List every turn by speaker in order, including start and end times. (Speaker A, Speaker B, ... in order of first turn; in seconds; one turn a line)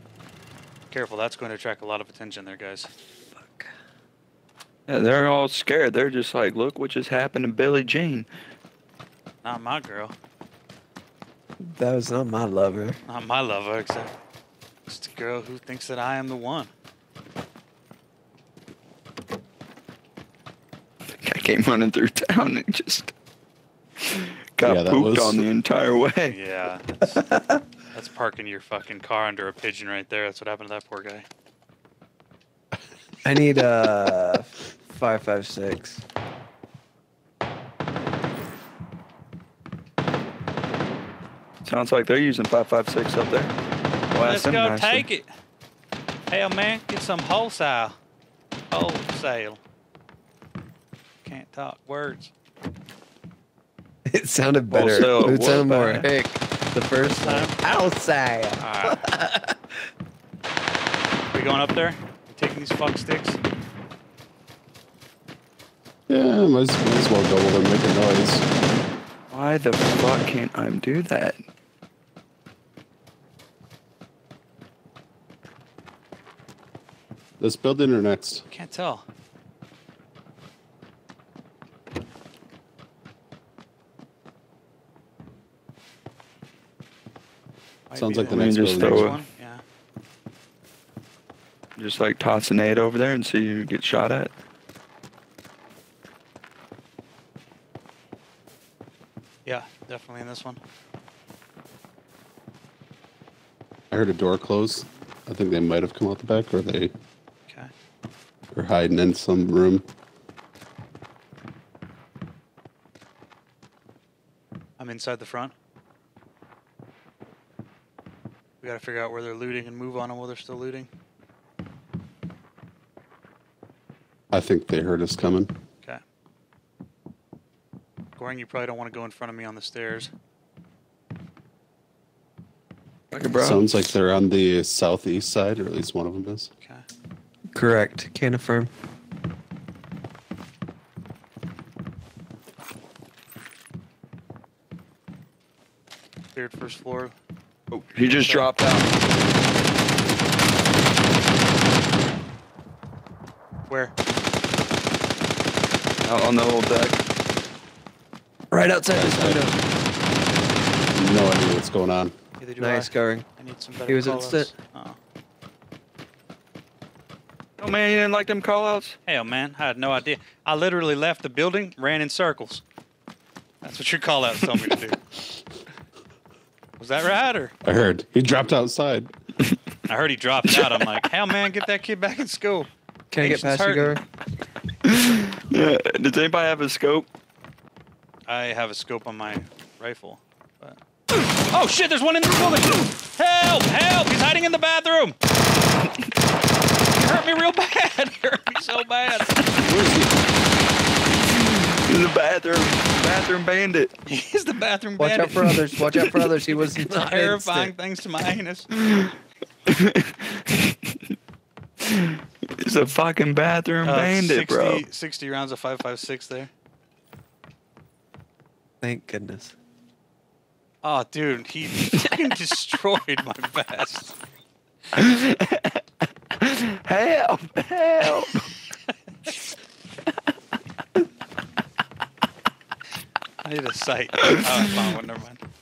Speaker A: 0.9-2.9
Speaker B: 3.3-3.7
Speaker C: 4.9-8.3
Speaker A: 9.4-10.1
Speaker B: 11.7-13.0
Speaker A: 13.1-14.2
Speaker A: 14.9-16.7
Speaker C: 21.1-23.1
Speaker C: 24.0-26.4
Speaker D: 24.6-25.4
Speaker A: 26.3-27.2
Speaker B: 27.3-27.6
Speaker A: 27.9-31.2
Speaker B: 33.2-36.0
Speaker C: 41.6-43.5
Speaker C: 44.1-45.0
Speaker A: 44.3-45.3
Speaker A: 46.3-48.0
Speaker A: 48.7-49.6
Speaker A: 51.2-52.3
Speaker B: 54.1-59.6
Speaker C: 54.7-56.1
Speaker A: 57.2-57.8
Speaker A: 58.6-59.1
Speaker A: 61.3-63.4
Speaker D: 66.1-68.4
Speaker C: 69.3-71.4
Speaker D: 77.4-78.4
Speaker A: 78.5-79.0
Speaker A: 87.9-89.6
Speaker D: 87.9-89.2
Speaker C: 88.2-89.2
Speaker C: 91.8-94.3
Speaker A: 99.4-100.6
Speaker D: 103.9-106.9
Speaker D: 108.5-109.8
Speaker A: 114.8-115.5
Speaker A: 118.6-120.9
Speaker D: 124.3-125.5
Speaker A: 128.2-130.1
Speaker C: 133.1-133.6
Speaker B: 133.2-133.6
Speaker D: 133.3-136.5
Speaker B: 137.5-138.7
Speaker A: 146.3-147.1
Speaker C: 147.7-148.9
Speaker A: 148.1-148.5
Speaker C: 156.0-157.0
Speaker B: 158.5-159.6
Speaker D: 158.9-159.4
Speaker D: 160.9-162.1
Speaker A: 162.4-165.0
Speaker B: 162.6-163.2
Speaker B: 163.8-164.5
Speaker C: 167.6-169.0
Speaker A: 169.1-172.6
Speaker A: 173.6-175.0
Speaker A: 176.8-177.5
Speaker D: 177.6-179.1
Speaker A: 179.9-182.7
Speaker B: 183.1-184.0
Speaker A: 183.2-184.0
Speaker C: 184.8-187.1
Speaker A: 188.3-195.2
Speaker A: 196.9-199.4
Speaker D: 199.6-200.1
Speaker C: 201.3-204.1
Speaker A: 204.1-205.4
Speaker B: 205.0-207.7
Speaker C: 205.8-206.2
Speaker A: 206.9-208.7
Speaker C: 208.8-209.1
Speaker C: 209.7-210.7
Speaker C: 211.9-214.8
Speaker A: 213.8-216.5
Speaker B: 218.8-219.6
Speaker A: 220.8-224.1
Speaker C: 221.9-222.2
Speaker C: 224.9-225.8
Speaker C: 226.4-228.5
Speaker A: 233.4-235.4